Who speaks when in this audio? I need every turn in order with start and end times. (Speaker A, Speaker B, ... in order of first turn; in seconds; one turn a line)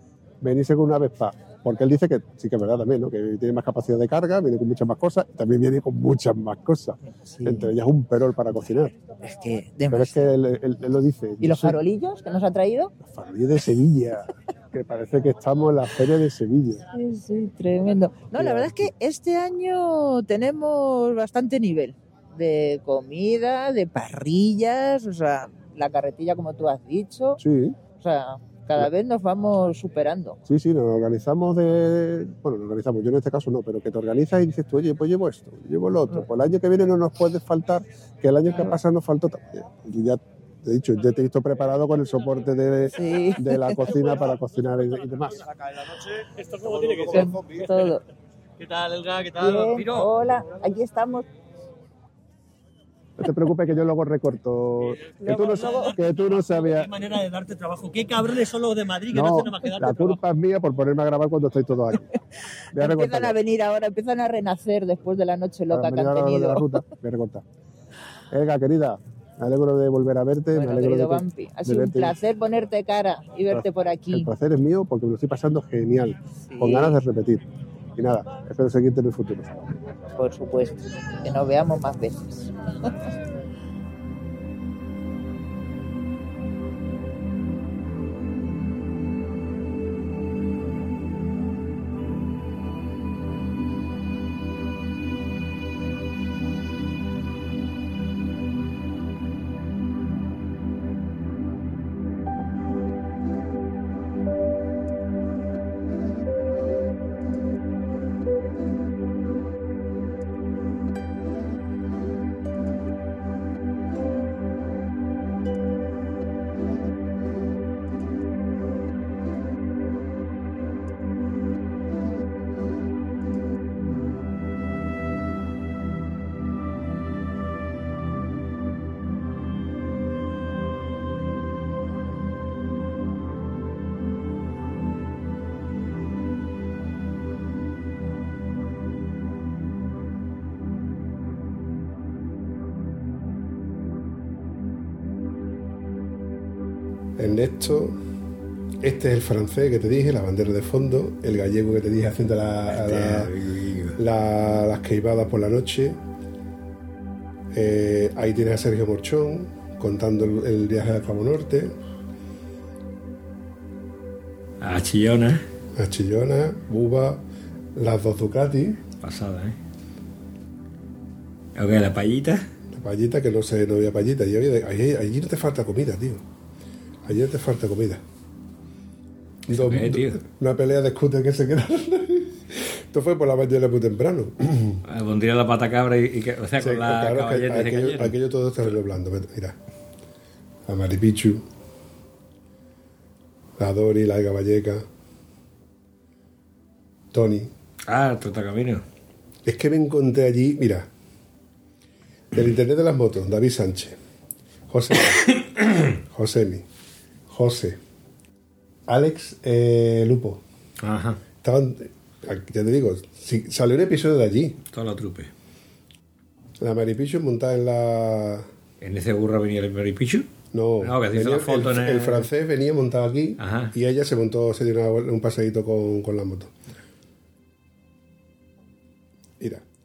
Speaker A: 0.4-9.0
Speaker B: 7.3-7.7
Speaker B: 9.2-10.3
Speaker A: 9.9-11.8
Speaker B: 11.4-12.9
Speaker A: 13.0-16.8
Speaker B: 16.9-27.4
Speaker A: 18.3-18.9
Speaker A: 27.4-27.8
Speaker B: 27.9-30.4
Speaker A: 30.5-45.5
Speaker B: 42.9-43.8
Speaker C: 46.4-47.7
Speaker B: 47.1-48.0
Speaker C: 48.6-50.1
Speaker B: 49.4-51.3
Speaker A: 53.2-57.0
Speaker C: 55.2-60.1
Speaker B: 55.2-55.9
Speaker A: 59.1-62.1
Speaker A: 62.7-63.3
Speaker B: 62.7-66.8
Speaker A: 65.7-67.4
Speaker A: 68.3-72.2
Speaker B: 70.5-74.3
Speaker A: 73.5-79.7
Speaker B: 76.5-77.0
Speaker B: 80.2-82.9
Speaker A: 147.2-148.0
Speaker A: 148.8-153.3
Speaker D: 152.7-154.0
Speaker A: 154.0-156.0
Speaker A: 157.5-161.8
Speaker D: 164.6-165.4
Speaker A: 165.7-167.2
Speaker A: 167.8-168.8
Speaker D: 169.0-169.6
Speaker D: 171.6-172.5
Speaker A: 172.7-176.2
Speaker A: 177.0-178.0
Speaker D: 179.5-180.2
Speaker A: 179.5-184.8
Speaker D: 184.8-188.1
Speaker A: 186.6-189.6
Speaker A: 190.7-191.4
Speaker A: 193.6-194.8
Speaker A: 197.1-197.5
Speaker D: 197.9-198.8
Speaker A: 199.4-200.9
Speaker A: 202.3-204.0
Speaker A: 204.7-205.3
Speaker A: 206.0-206.6
Speaker A: 207.3-207.8
Speaker A: 208.9-210.4
Speaker D: 210.8-211.2
Speaker A: 211.4-214.6
Speaker D: 214.7-215.3
Speaker A: 216.6-218.5
Speaker D: 218.8-220.3
Speaker A: 220.5-226.5
Speaker D: 220.8-222.3
Speaker D: 223.4-223.7